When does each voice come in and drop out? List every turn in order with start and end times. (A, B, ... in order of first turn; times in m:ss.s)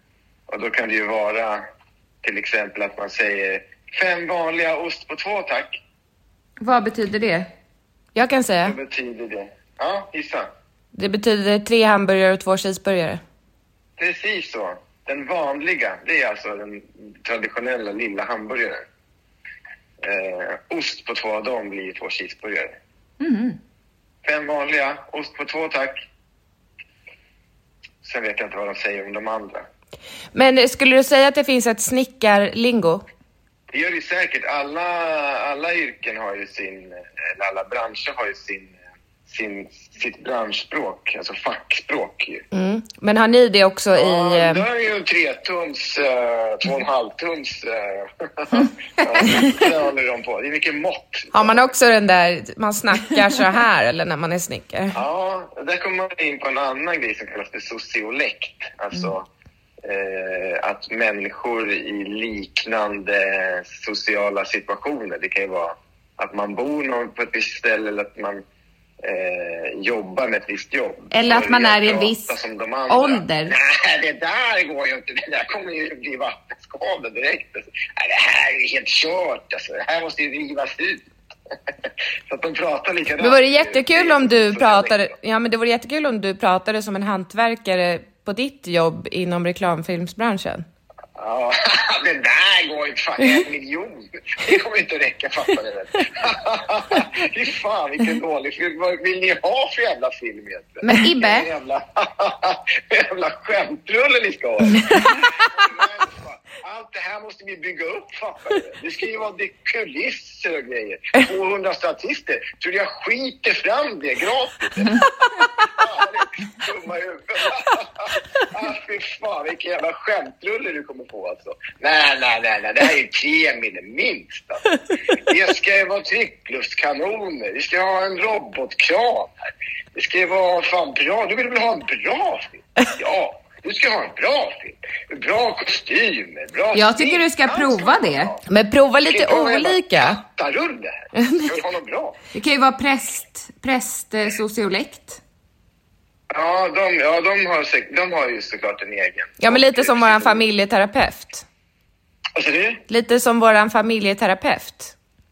0:00.5-0:01.6 A
0:02.2-0:05.8 A
0:06.6-0:07.5 B
0:08.2-0:08.8 C
0:08.6-0:10.5 A
0:10.9-0:13.2 C
0:14.0-0:18.8 A
0:20.0-0:22.8 A
0:23.2-0:23.6 B
0:24.2-0:26.0 A
0:28.0-0:29.7 A
0:30.3-0:33.0 C
0:33.7-0:42.4 A
0:42.5-0:44.6 C
0:43.9-0:51.7 A
0:51.3-0:55.0 C
0:54.9-0:59.3 A
0:59.8-1:08.4 A
1:09.0-1:21.0 A
1:11.1-1:12.4 B
1:12.9-1:13.6 B
1:22.3-1:25.0 A
1:23.2-1:30.6 C
1:31.2-1:55.1 A
1:40.8-1:41.1 C
1:40.8-1:41.5 B
1:55.6-2:09.3 A
2:10.0-2:18.4 A
2:16.7-2:18.3 B
2:18.5-2:20.2 C
2:19.1-2:22.2 A
2:21.2-2:21.6 C
2:22.3-2:25.2 B
2:26.3-2:30.4 A
2:29.4-2:31.4 C
2:32.4-2:32.8 A
2:32.9-2:34.9 C